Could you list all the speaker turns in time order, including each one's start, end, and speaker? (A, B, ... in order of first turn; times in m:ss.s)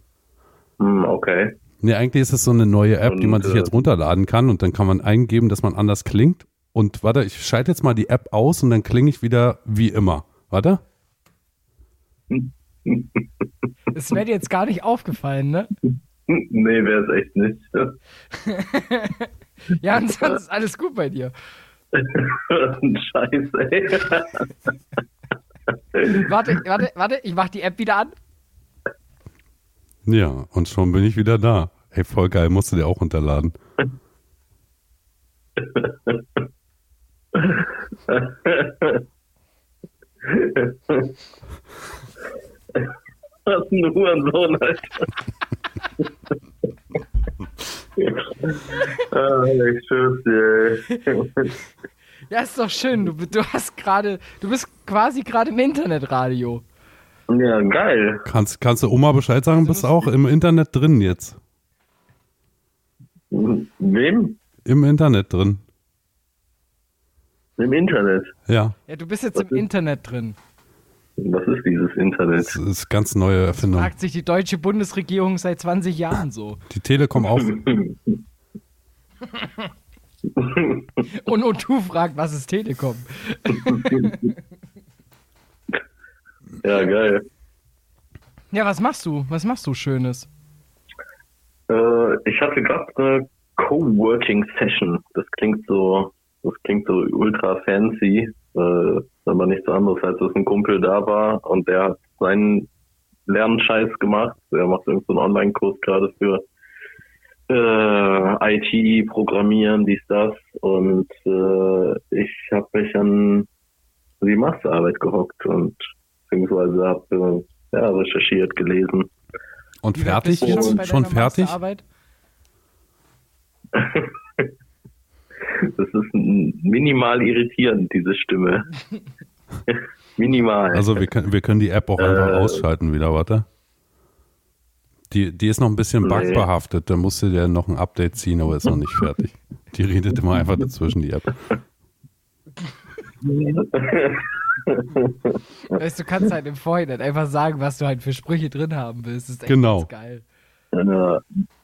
0:00.8-0:01.6 A
0:01.8-0:10.8 B
0:03.1-0:03.8 A
0:12.3-0:13.2 A
0:13.9-0:15.7 C
0:16.3-0:18.0 A
0:18.3-0:21.3 C
0:21.9-0:24.5 A
0:25.9-0:26.3 A
0:26.1-0:28.2 C
0:30.1-0:33.6 B
0:35.6-0:36.4 A
0:37.4-0:39.0 A
0:40.2-0:41.2 A
0:43.5-0:45.1 A
0:48.0-0:51.6 A
0:52.3-0:56.6 C
0:57.3-0:58.2 A
0:58.2-1:01.4 B
0:59.6-1:00.1 C
1:03.3-1:04.4 A
1:04.6-1:05.6 B
1:07.6-1:08.3 A
1:08.5-1:08.8 B
1:08.9-1:10.4 C
1:11.2-1:12.6 A
1:12.4-1:13.9 B
1:13.6-1:16.6 C
1:16.7-1:17.6 B
1:17.3-1:18.2 A
1:19.3-1:19.7 C
1:20.4-1:21.0 A
1:21.1-1:24.3 C
1:23.5-1:24.3 A
1:26.6-1:27.2 A
1:28.5-1:30.3 C
1:31.7-1:42.7 A
1:43.3-1:46.4 A
1:47.5-1:53.5 A
1:54.2-1:59.1 A
1:59.8-2:01.6 B
2:00.0-2:01.8 C
2:00.4-2:00.8 A
2:03.7-2:04.5 A
2:05.5-2:08.7 A
2:09.7-2:11.0 A
2:10.7-2:13.5 B
2:12.0-2:12.6 A
2:15.1-2:21.4 B
2:16.0-2:16.5 A
2:23.2-2:25.4 A
2:25.7-2:30.2 C
2:29.5-2:29.9 B
2:30.7-2:31.2 A